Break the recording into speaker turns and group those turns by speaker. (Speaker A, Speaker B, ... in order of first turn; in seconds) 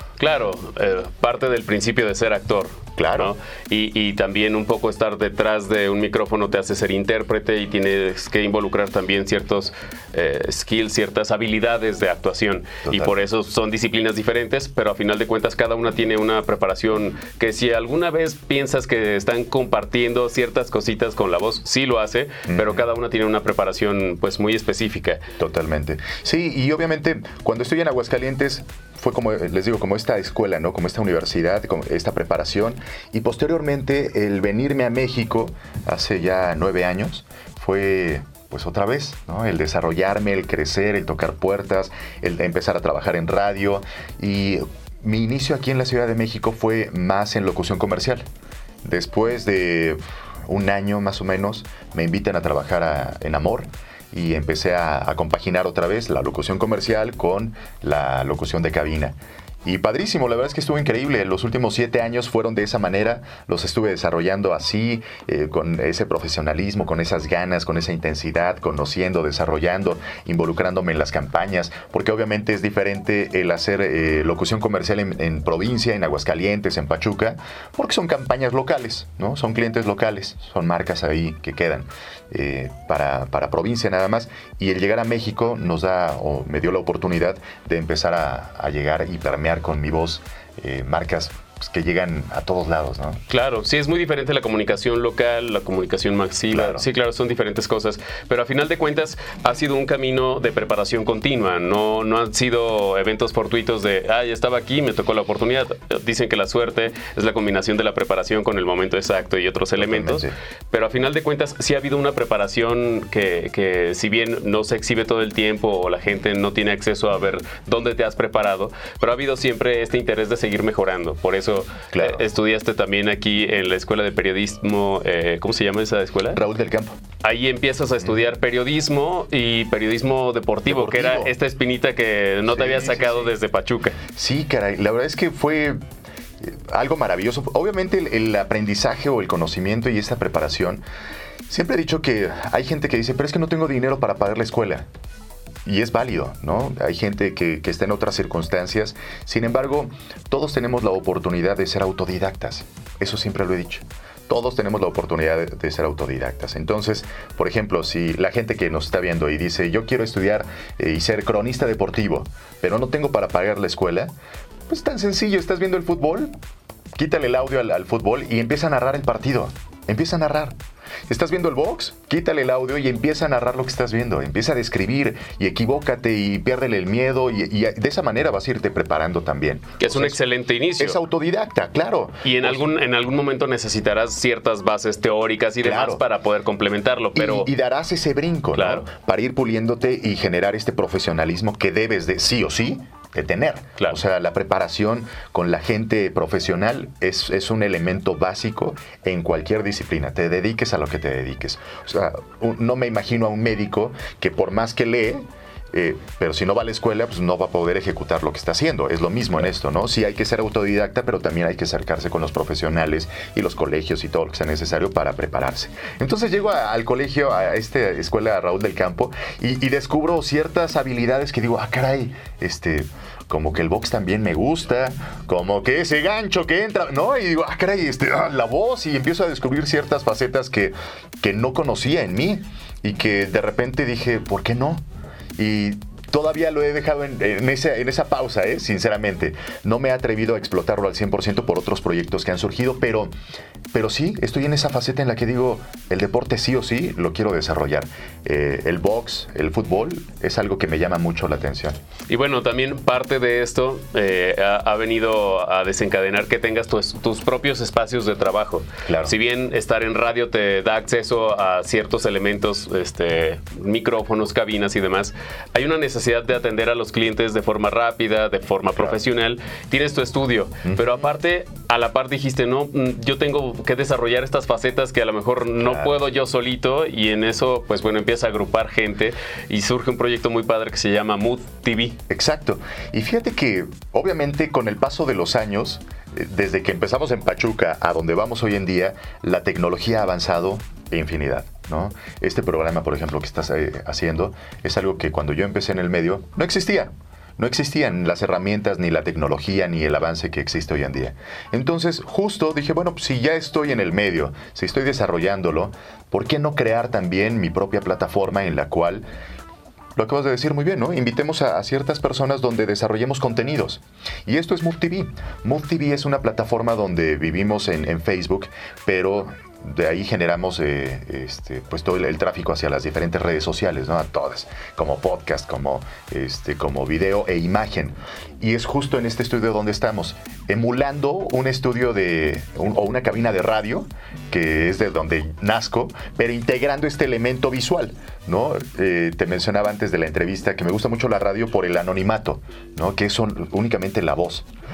Speaker A: 0.2-25.2, 93.3-126.4, 127.2-134.0, 179.8-181.0, 182.2-187.5, 188.5-188.9, 252.1-282.0
Speaker B: 3.0-3.3, 12.9-13.1, 22.5-22.8, 25.4-48.2, 48.8-93.2, 96.5-96.8, 109.8-110.3, 121.9-122.2, 126.3-127.0, 130.7-131.3, 132.5-133.3, 134.1-135.8, 136.4-140.8, 141.5-144.9, 145.7-164.1, 164.7-166.3, 166.9-170.6, 171.1-180.2, 180.8-182.7, 185.6-186.0, 187.2-234.8, 235.4-243.1, 243.7-251.8, 258.9-259.1, 275.6-275.9, 282.1-309.1, 310.0-344.5